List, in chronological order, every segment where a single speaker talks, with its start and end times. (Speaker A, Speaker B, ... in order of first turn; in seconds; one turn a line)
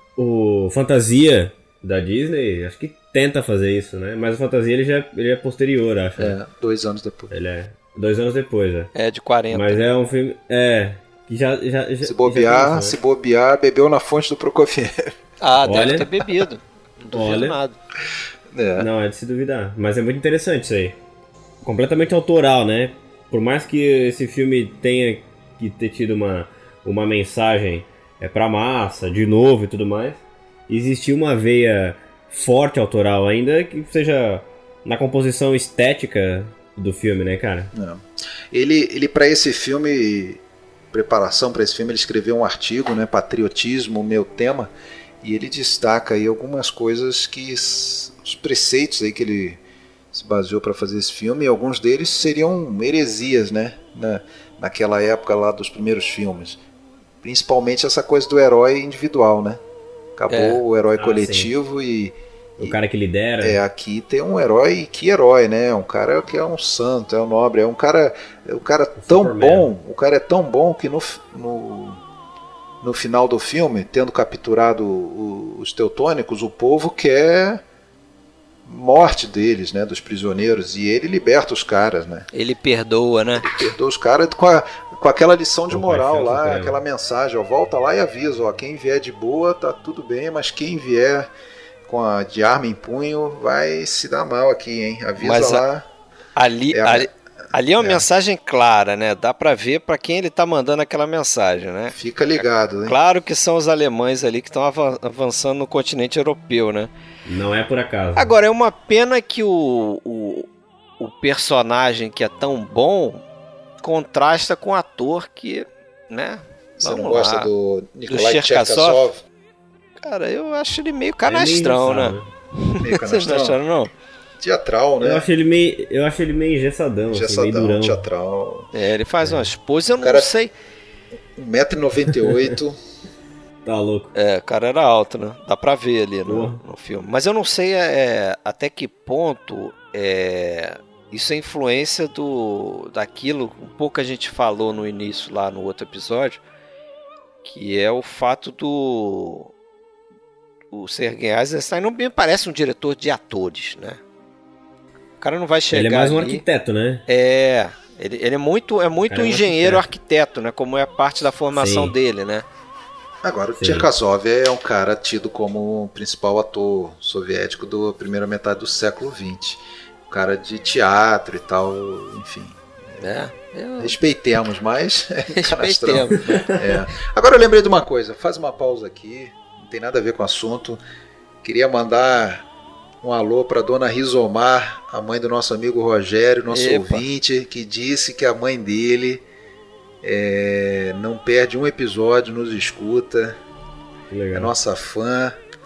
Speaker A: 0.2-6.3
Speaker B: 6.2-7.3
Speaker A: 7.3-8.9
Speaker C: 8.9-9.9
Speaker A: 9.5-12.9
Speaker B: 12.0-15.1
Speaker C: 15.4-17.7
Speaker A: 15.6-16.2
Speaker B: 17.0-17.3
Speaker A: 17.1-17.6
Speaker B: 18.5-18.9
Speaker A: 18.8-20.9
Speaker A: 21.6-37.7
Speaker B: 37.7-40.4
Speaker B: 40.9-44.7
Speaker B: 45.2-49.6
Speaker B: 50.1-56.6
Speaker B: 57.2-59.6
Speaker B: 60.2-62.7
Speaker C: 60.3-60.6
Speaker A: 61.0-61.5
Speaker A: 62.6-63.6
Speaker B: 63.4-72.0
Speaker A: 69.0-69.7
Speaker B: 72.8-77.6
Speaker B: 78.7-82.3
Speaker C: 82.3-83.5
Speaker B: 83.4-91.3
Speaker A: 85.7-86.8
Speaker B: 91.8-95.8
Speaker C: 95.2-95.6
Speaker C: 96.3-102.0
Speaker B: 96.7-97.1
Speaker B: 101.9-103.0
Speaker C: 102.8-106.9
Speaker A: 107.2-108.3
Speaker C: 108.2-110.5
Speaker C: 111.0-113.2
Speaker C: 113.8-117.5
Speaker B: 116.8-119.2
Speaker C: 118.1-119.0
Speaker C: 120.0-123.9
Speaker A: 121.2-122.3
Speaker B: 122.8-123.6
Speaker B: 124.4-125.3
Speaker A: 125.0-128.0
Speaker B: 127.1-128.7
Speaker C: 128.7-130.5
Speaker A: 129.2-129.5
Speaker B: 130.0-130.3
Speaker B: 131.3-132.8
Speaker A: 133.6-134.1
Speaker C: 134.1-146.4
Speaker A: 136.3-136.6
Speaker C: 147.4-149.5
Speaker C: 150.7-154.0
Speaker C: 155.2-156.4
Speaker A: 155.7-157.0
Speaker C: 157.1-162.4
Speaker A: 159.1-159.8
Speaker A: 161.5-161.9
Speaker B: 163.2-173.0
Speaker A: 163.6-163.9
Speaker C: 173.0-173.9
Speaker B: 173.8-180.8
Speaker C: 175.3-176.8
Speaker B: 181.4-182.4
Speaker B: 183.0-189.2
Speaker C: 186.5-187.0
Speaker B: 190.0-193.4
Speaker A: 194.1-194.5
Speaker B: 194.3-195.4